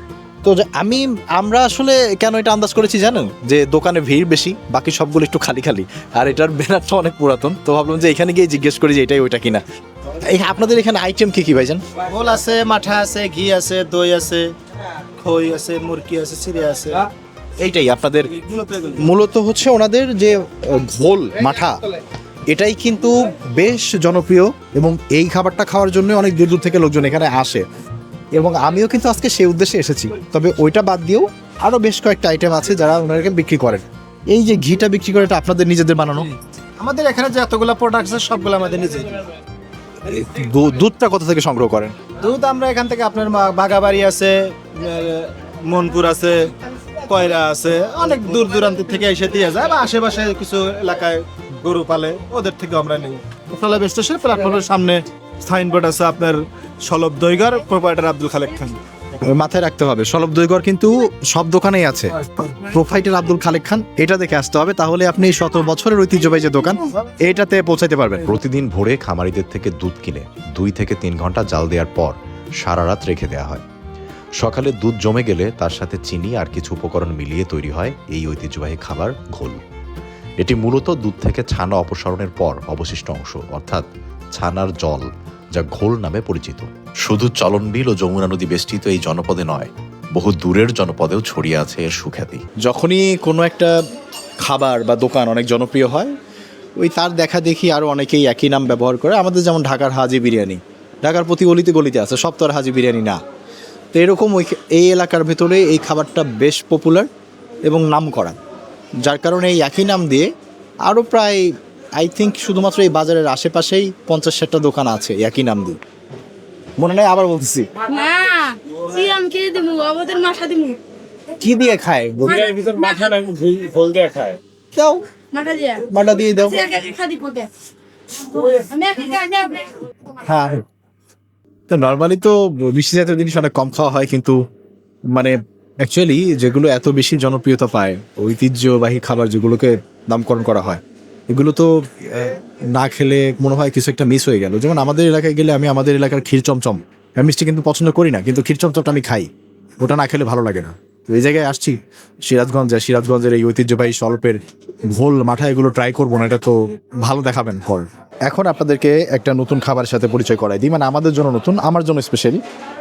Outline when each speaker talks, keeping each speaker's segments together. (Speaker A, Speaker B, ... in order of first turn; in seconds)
Speaker A: 0.4-9.6, 10.2-11.8, 17.6-18.3, 19.0-21.8, 22.5-27.6, 28.3-36.3, 40.0-41.9, 59.2-68.3, 92.6-93.7, 94.4-96.1, 96.8-103.2, 103.9-107.1, 107.7-108.4, 109.0-110.3, 110.9-115.8, 116.8-117.7, 121.4-122.5, 124.8-125.0, 125.9-126.7, 130.2-130.6, 131.7-134.4, 135.1-149.3, 149.8-151.8, 152.3-162.4
Speaker B: 12.1-14.5, 15.2-17.0, 18.4-19.0, 36.8-39.2, 42.2-46.4, 47.1-58.8
Speaker C: 68.3-73.6, 74.4-79.6, 80.4-92.4
Speaker D: 117.9-120.8, 125.3-125.9, 126.5-127.5, 128.2-129.8
Speaker E: 122.2-124.4